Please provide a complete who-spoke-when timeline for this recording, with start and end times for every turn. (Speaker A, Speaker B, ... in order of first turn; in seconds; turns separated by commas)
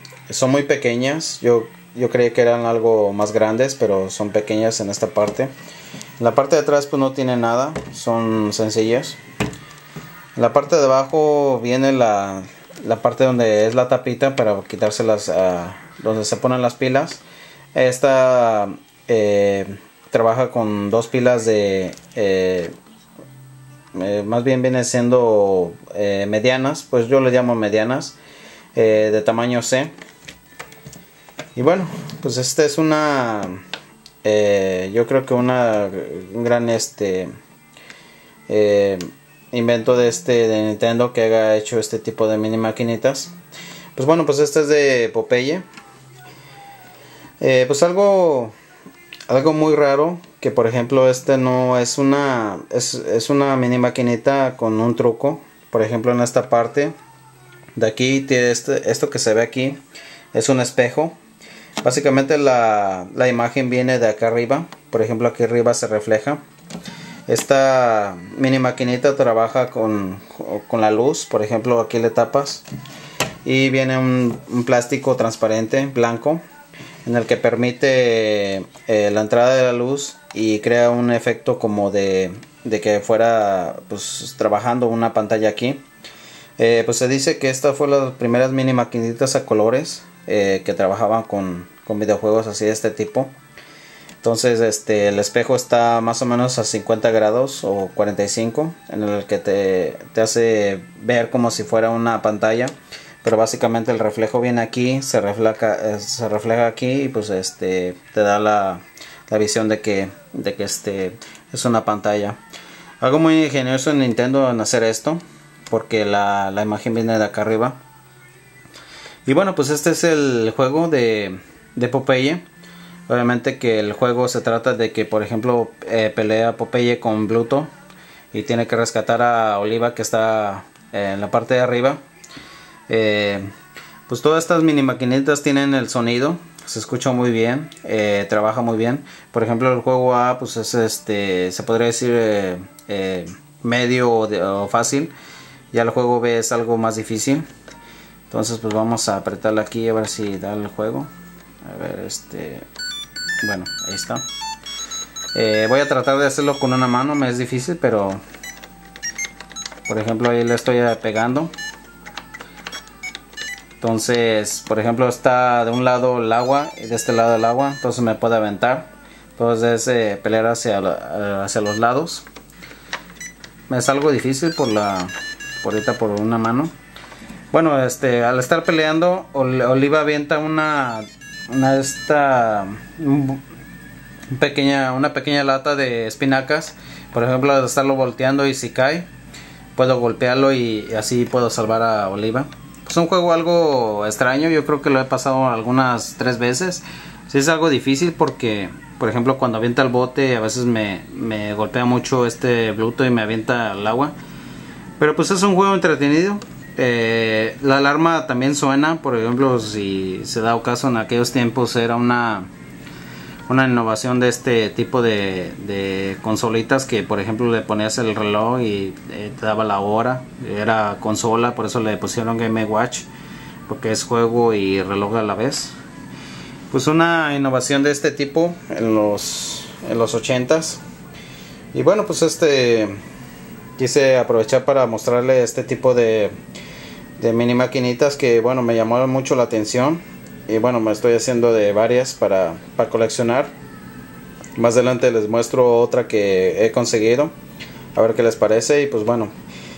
Speaker A: 0.3-5.5, Speaker A: 6.2-9.2, Speaker A: 10.4-17.2, Speaker A: 17.7-22.7, Speaker A: 23.9-28.2, Speaker A: 28.8-29.9, Speaker A: 31.6-33.6, Speaker A: 34.2-37.3, Speaker A: 38.5-43.3, Speaker A: 44.0-45.6, Speaker A: 47.4-48.5, Speaker A: 49.3-56.9, Speaker A: 57.8-59.8, Speaker A: 60.3-61.1, Speaker A: 61.8-66.4, Speaker A: 67.3-72.7, Speaker A: 73.5-76.4, Speaker A: 77.0-85.8, Speaker A: 86.6-93.3, Speaker A: 94.2-112.4, Speaker A: 113.0-117.8, Speaker A: 119.3-122.4, Speaker A: 123.1-127.7, Speaker A: 128.3-132.0, Speaker A: 132.9-133.5, Speaker A: 134.1-145.1, Speaker A: 145.7-147.4, Speaker A: 148.3-151.1, Speaker A: 151.6-152.7, Speaker A: 153.4-154.2, Speaker A: 155.3-158.2, Speaker A: 159.9-161.5, Speaker A: 163.8-172.3, Speaker A: 173.7-176.7, Speaker A: 177.5-183.4, Speaker A: 184.3-189.1, Speaker A: 189.8-204.1, Speaker A: 205.0-212.5, Speaker A: 213.5-223.1, Speaker A: 223.7-225.7, Speaker A: 226.7-230.8, Speaker A: 231.7-233.0, Speaker A: 233.8-236.3, Speaker A: 237.2-243.5, Speaker A: 244.6-247.3, Speaker A: 248.0-249.3